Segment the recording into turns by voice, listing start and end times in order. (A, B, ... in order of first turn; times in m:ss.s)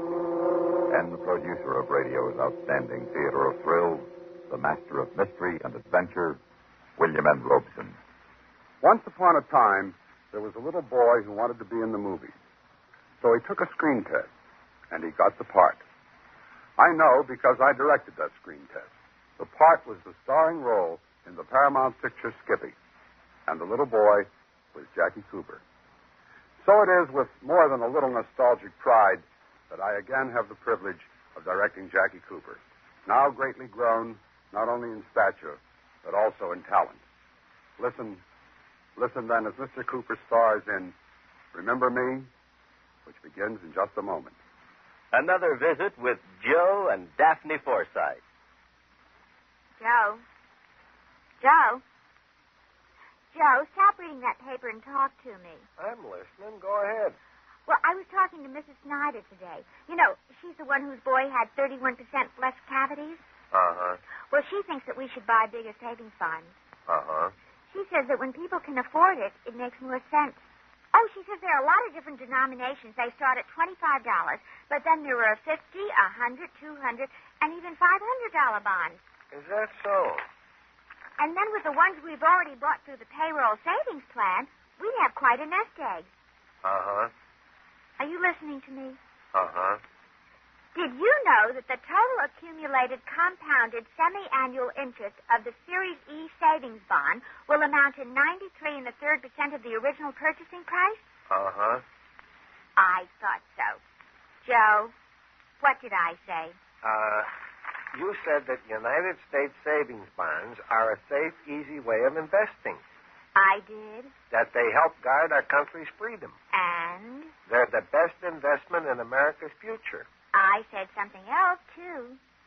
0:00.9-0:06.4 A
0:07.0-0:08.0 A
0:08.8-0:12.4 B
0:13.2-0:14.3 B
0:14.9-0:15.8 B
0:16.8-0:22.8 B
0:23.4-0:25.6 B
0:26.6-0:37.0 B
0:37.8-0:38.2 B
0:39.0-0:40.9 B
0:41.5-0:42.3 B
0:43.0-0:44.4 B
0:45.1-0:48.2 C
0:49.8-0:50.2 D
0:51.4-0:51.8 D
0:53.3-0:55.7 D
0:55.8-0:57.2 E
0:57.7-1:03.2 D
1:03.5-1:04.0 E
1:04.3-1:06.5 D
1:06.9-1:07.3 E
1:07.7-1:10.4 D
1:10.9-1:19.0 D
1:19.3-1:20.2 E
1:21.2-1:26.1 D
1:26.6-1:27.1 E
1:28.0-1:29.0 D
1:29.3-1:29.8 E
1:30.7-1:41.0 D
1:41.3-1:41.8 E
1:42.8-1:43.8 D
1:44.4-1:44.9 D
1:45.6-1:46.6 D
1:46.8-1:47.3 E
1:47.9-1:52.8 E
1:53.3-1:54.1 D
1:54.3-1:56.3 E
1:56.5-1:57.3 D
1:57.4-2:00.1 E
2:00.3-2:02.2 D